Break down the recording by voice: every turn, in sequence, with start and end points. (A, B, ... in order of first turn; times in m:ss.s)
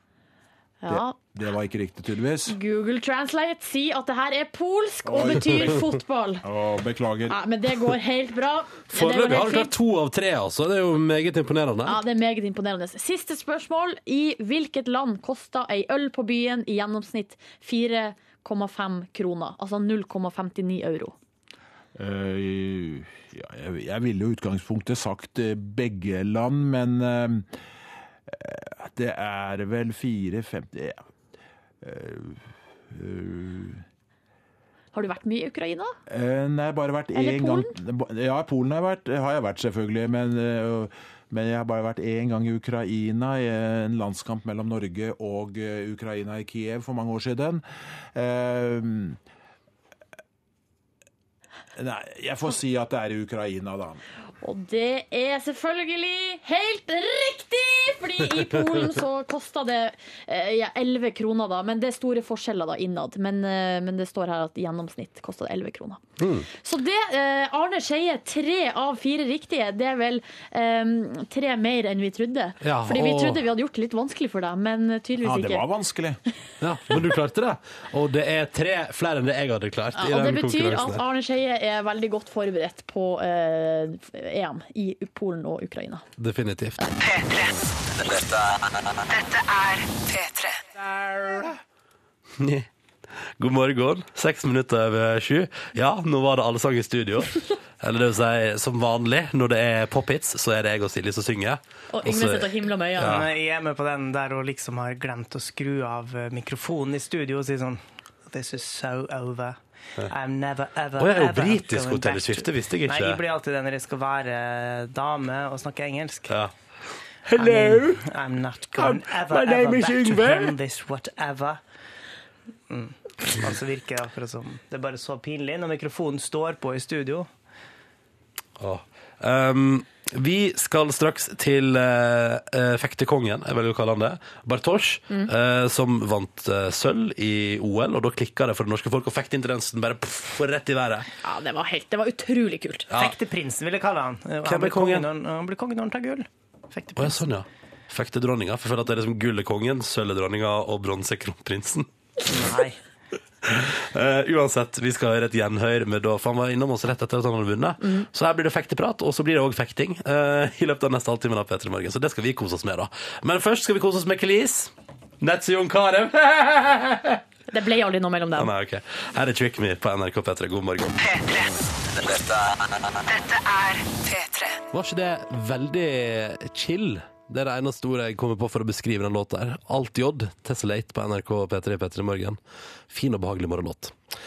0:00.8-0:01.2 A
0:00.9-0:02.6 B
0:02.5-0:06.4 A
0:05.0-0:05.8 B
0:06.4-0:07.4 B
0:07.3-0:09.7 A
0:08.9-0:12.0 C
0:11.9-0:21.2 A
0:22.0-0:27.6 B
0:28.3-0:31.0 B
0:31.8-0:33.8 B
0:34.9-0:36.0 A
0:36.1-0:49.2 B
0:37.1-0:37.8 A
0:51.8-0:54.0 B
0:54.4-1:15.7 A
1:06.2-1:06.5 C
1:12.6-1:13.4 C
1:15.2-1:16.2 B
1:16.6-1:21.0 C
1:20.0-1:26.0 A
1:26.2-1:26.9 C
1:27.0-1:28.3 D
1:29.1-1:30.6 D
1:32.4-1:32.7 C
1:33.4-1:43.3 C
1:41.9-1:43.2 A
1:43.0-1:56.4 E
1:51.0-1:53.2 C
1:57.3-1:58.0 C
1:57.3-2:01.6 E
1:58.8-2:00.6 C
2:02.7-2:07.3 E
2:08.6-2:21.1 C
2:21.2-2:22.9 A
2:23.0-2:27.2 E
2:24.4-2:25.1 C
2:27.0-2:31.9 C
2:32.3-2:32.8 E
2:33.4-2:47.2 C
2:47.5-2:48.5 A
2:48.4-2:51.0 C
2:51.0-2:52.3 D
2:53.1-2:54.6 D
2:54.7-3:02.4 C
3:02.9-3:04.0 C